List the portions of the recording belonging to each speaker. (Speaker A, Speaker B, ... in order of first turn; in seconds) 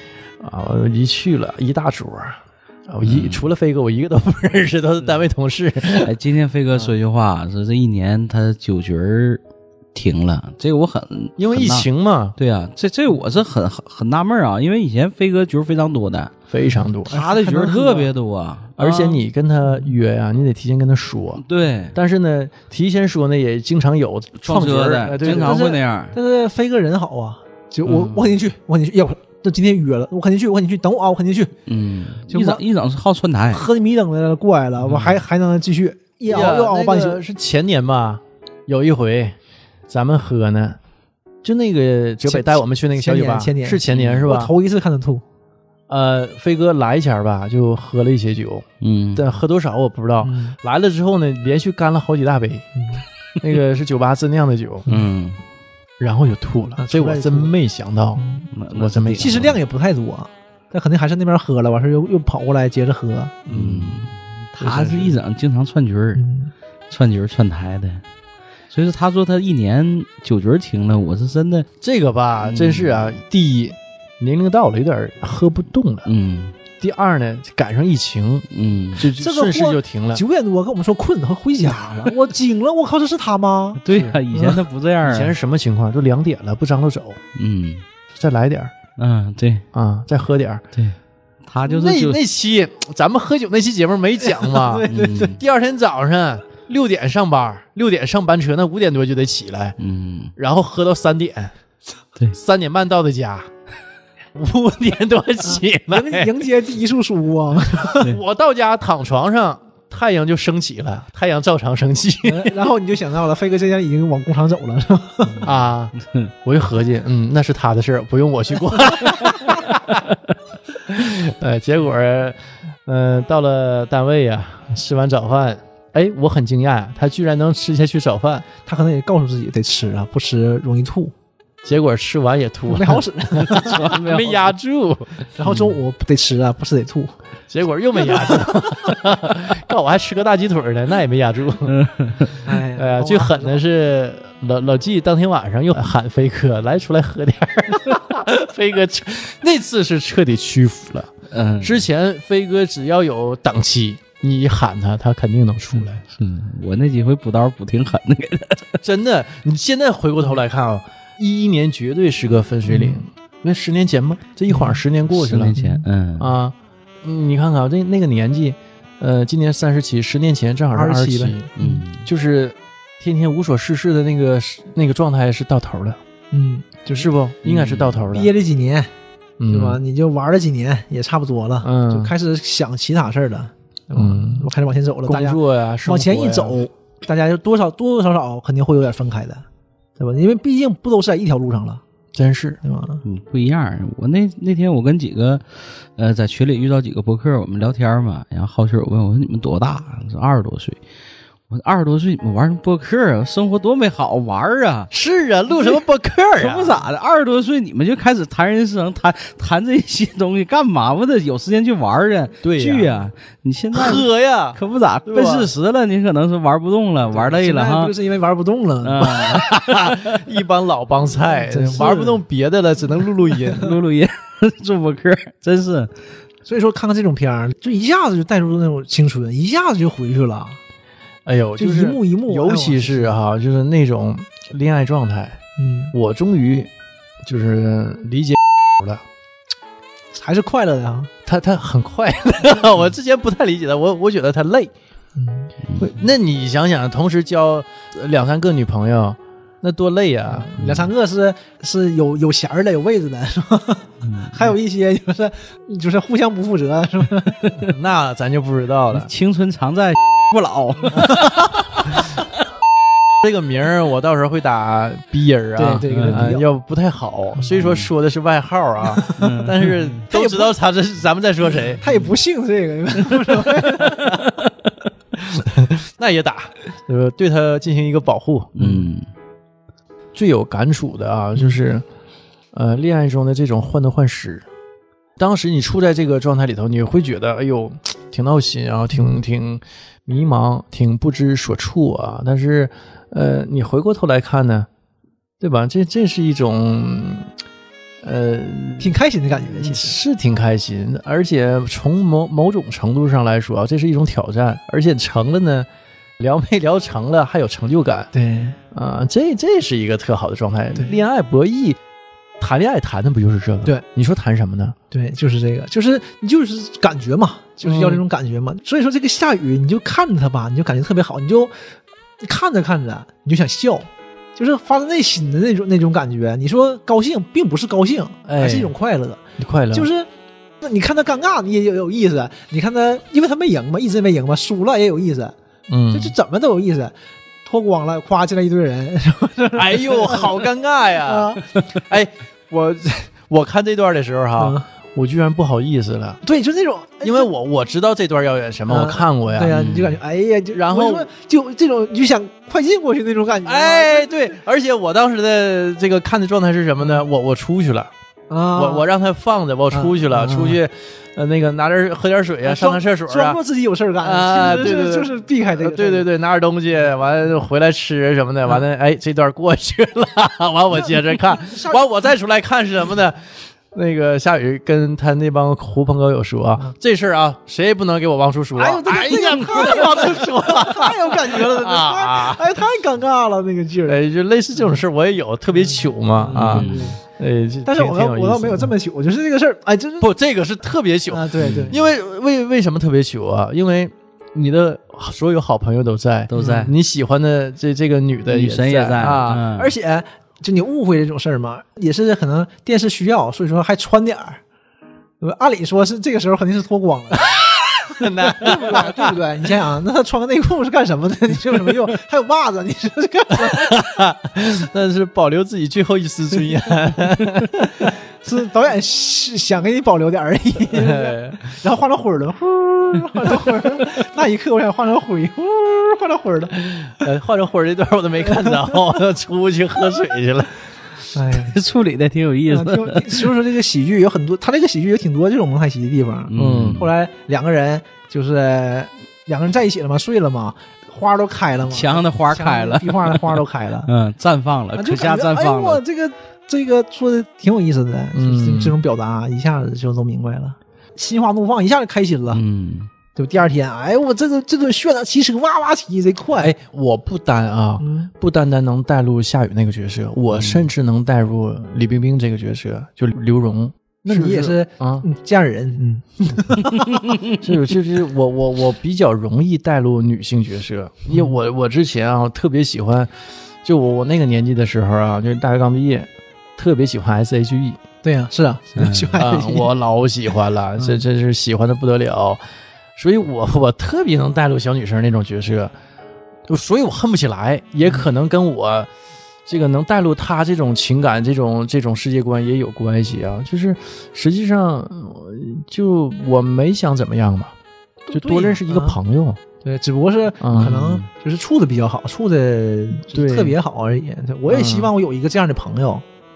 Speaker A: 0.4-6.2, 11.4-12.3, 16.5-17.2, 18.8-21.4, 21.9-25.6, 27.9-28.4, 36.2-39.4, 39.9-40.8, 41.4-44.5, 45.9-52.6, 53.4-54.9, 56.0-59.6, 63.5-65.2, 71.8-76.1, 76.8-80.2, 83.9-84.2, 85.0-87.2, 88.1-88.7, 89.7-90.6, 91.7-99.8, 100.3-101.5, 102.3-103.5, 104.3-106.4, 107.8-112.5, 115.4-120.2, 120.9-128.5, 131.6-135.3, 137.5-141.8, 142.5-156.0, 158.8-165.5, 166.2-171.5, 172.0-176.0, 176.9-178.3, 179.4-179.8, 181.6-182.1, 183.9-184.5, 185.1-186.6, 192.1-192.6, 204.9-206.9, 212.4-213.0, 213.7-215.5, 219.3-223.8, 231.2-235.4, 235.9-236.7, 237.2-239.0, 241.2-244.7, 245.8-250.5, 257.6-259.1, 263.2-271.8, 275.2-278.9, 280.1-281.8, 282.5-284.4, 285.2-294.7, 295.4-297.3, 298.0-305.7, 306.2-308.1, 308.7-311.8, 312.4-314.8, 317.6-318.0, 328.2-328.7, 329.4-329.9, 335.7-336.1, 339.5-346.2, 347.0-349.6, 350.5-351.1, 353.4-357.9, 358.5-363.4, 364.0-382.5, 383.9-388.7, 390.0-399.5, 407.3-409.2, 413.3-417.9, 420.7-421.4, 427.0-430.6, 436.4-436.8, 448.1-448.8, 456.4-465.0, 466.4-473.1, 473.6-477.8, 479.2-482.4, 482.9-485.7, 486.5-488.9, 489.4-497.5, 498.1-499.4, 500.4-501.0, 503.1-503.6, 504.5-504.9
Speaker B: 3.0-3.4, 6.0-9.4, 9.9-16.3, 17.1-19.2, 21.4-21.9, 24.4-26.1, 31.6-33.6, 34.8-35.2, 43.9-44.3, 48.8-49.2, 54.9-55.4, 58.5-59.5, 63.5-66.2, 66.9-68.0, 68.7-71.7, 72.4-73.2, 76.0-76.5, 78.5-79.1, 83.8-85.3, 87.3-87.8, 89.0-89.6, 91.5-92.2, 94.9-95.4, 99.8-100.3, 116.0-116.3, 133.5-134.4, 141.7-142.3, 151.3-151.9, 156.2-158.8, 165.1-166.3, 171.6-172.1, 177.4-178.0, 193.0-200.8, 201.5-204.9, 205.5-205.8, 206.4-217.9, 218.8-220.2, 223.4-225.9, 250.6-250.8, 254.1-254.3, 258.9-262.2, 265.9-266.3, 267.5-267.9, 269.2-270.0, 278.6-279.0, 349.5-350.0, 386.3-387.0, 396.3-396.7, 398.3-399.7, 431.3-433.3, 436.3-436.9, 441.7-445.8, 452.3-452.9, 460.3-460.7, 478.8-479.2
Speaker C: 17.1-18.1, 25.2-31.5, 32.3-32.6, 33.5-37.2, 42.2-45.2, 50.2-50.5, 52.8-53.0, 56.8-57.5, 58.2-58.5, 59.1-63.4, 66.2-66.5, 79.2-84.6, 94.2-95.3, 105.5-108.1, 112.2-115.4, 128.6-131.1, 132.7-134.0, 135.3-137.1, 137.9-138.7, 142.4-143.6, 162.7-163.0, 164.5-164.8, 165.5-165.8, 170.7-171.8, 176.3-177.1, 178.1-178.9, 179.5-189.4, 190.0-191.8, 192.6-193.0, 217.1-219.3, 221.3-222.2, 226.4-230.6, 231.6-233.2, 235.6-235.9, 240.1-241.1, 245.2-245.5, 250.2-257.4, 265.6-266.4, 268.9-269.4, 270.1-270.5, 271.8-274.2, 298.8-300.0, 308.1-308.6, 310.7-311.0, 314.9-321.5, 322.2-330.1, 330.6-335.3, 335.9-336.9, 337.4-340.4, 341.0-341.4, 344.4-344.6, 346.2-347.3, 348.7-354.1, 358.3-358.8, 359.7-360.6, 362.4-366.1, 370.8-371.9, 378.5-384.0, 385.6-387.0, 387.6-390.1, 391.1-391.8, 396.4-396.7, 399.5-404.4, 405.2-407.4, 408.0-413.8, 418.2-427.0, 431.1-431.6, 432.5-443.9, 444.8-452.4, 453.1-456.5, 457.8-458.1, 464.0-466.9, 478.0-479.7, 498.1-499.0, 499.6-506.0